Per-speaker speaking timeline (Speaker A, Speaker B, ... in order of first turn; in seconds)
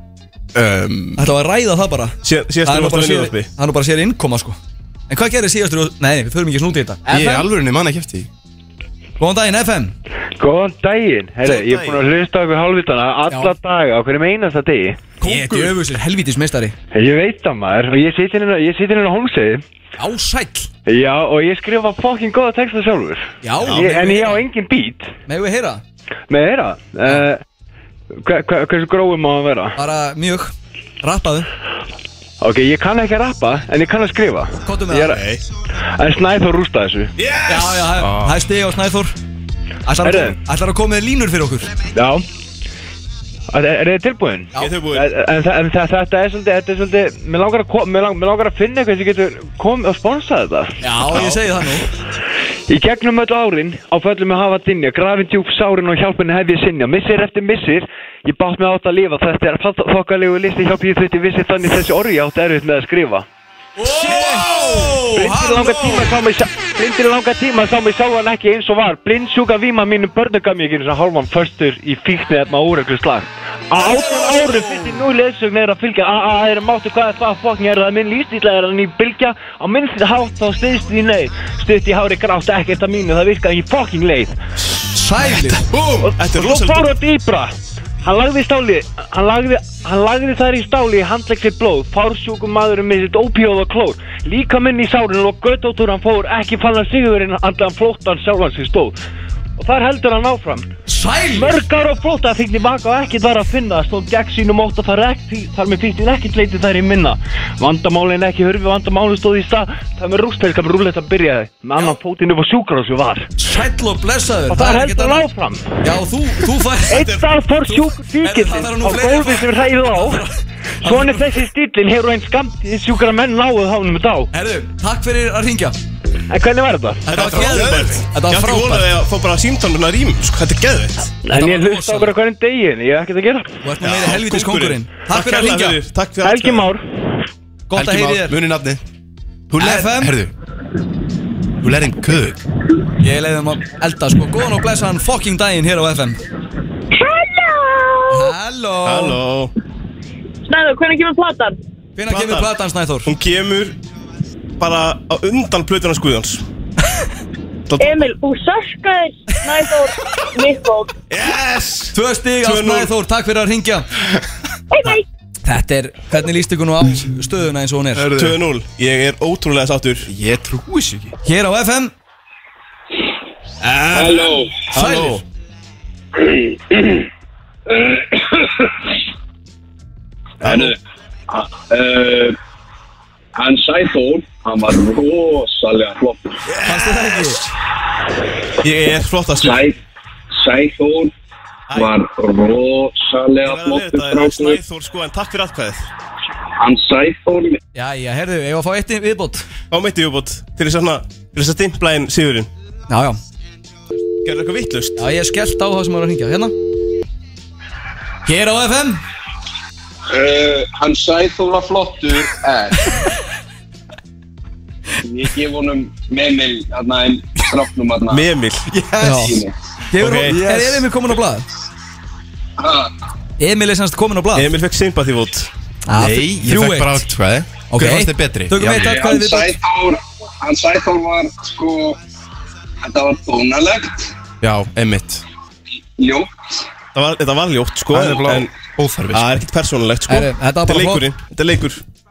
Speaker A: 0.5-1.2, 7.1-8.3, 38.0-38.3, 85.6-86.1, 137.7-138.8, 139.6-140.3, 141.6-142.4, 167.9-168.4, 170.1-171.2, 225.9-229.0, 234.4-235.2, 237.9-239.4
Speaker B: 1.2-7.4, 9.2-9.9, 13.3-13.5, 15.2-16.8, 20.0-20.7, 23.4-24.4, 25.3-25.8, 29.8-31.5, 34.6-35.2, 37.5-39.1, 39.9-41.7, 50.8-51.9, 63.8-66.1, 73.8-75.0, 84.9-85.7, 100.9-101.6, 113.4-115.3, 115.8-120.3, 120.8-121.2, 124.3-125.8, 127.1-128.9, 131.3-132.1, 133.6-135.8, 137.7-138.4, 139.6-140.1, 143.0-146.2, 148.1-149.2, 152.0-153.1, 161.9-163.9, 165.4-168.1, 171.2-171.9, 173.7-174.2, 174.7-175.2, 186.6-187.4, 197.8-199.5, 202.9-203.2, 205.0-206.5, 208.3-209.0, 219.0-219.4, 219.9-221.5, 223.4-224.5, 225.9-227.1, 227.7-229.5, 240.1-241.1
Speaker C: 2.2-3.5, 11.4-12.0, 23.6-24.0, 44.6-45.1, 86.2-86.9, 127.1-131.1, 133.8-136.7, 148.8-149.5, 152.1-152.5, 153.1-153.8, 154.6-156.4, 157.7-158.1, 161.1-162.9, 168.2-170.1, 174.7-175.2, 180.4-180.7, 186.6-187.3, 188.6-189.6, 191.7-191.9, 193.4-195.9, 199.7-202.5, 204.2-205.0, 218.1-218.7, 220.0-220.4, 224.3-225.5, 236.9-238.5, 239.1-241.8
Speaker D: 10.4-15.0, 16.9-19.6, 20.9-25.1, 26.3-27.4, 28.2-29.8, 32.4-35.2, 36.0-37.1, 40.0-40.4, 42.0-42.2, 43.5-50.8, 52.7-63.3, 64.0-84.4, 86.0-99.0, 99.6-100.7, 101.3-113.3, 114.5-115.8, 116.9-120.2, 120.8-124.3, 126.3-127.4, 131.2-133.5, 136.2-136.8
Speaker E: 146.9-148.3, 150.5-151.6, 157.8-160.9, 164.7-165.1
Speaker F: 173.9-174.7, 176.2-177.1, 177.7-178.8, 180.4-180.8, 181.3-182.4, 183.4-186.4, 189.4-189.8, 190.3-191.1, 191.7-194.6, 196.6-197.6, 210.1-212.8, 215.0-218.3, 219.0-219.5, 222.6-222.9, 228.7-232.0, 232.8-234.2, 236.0-236.3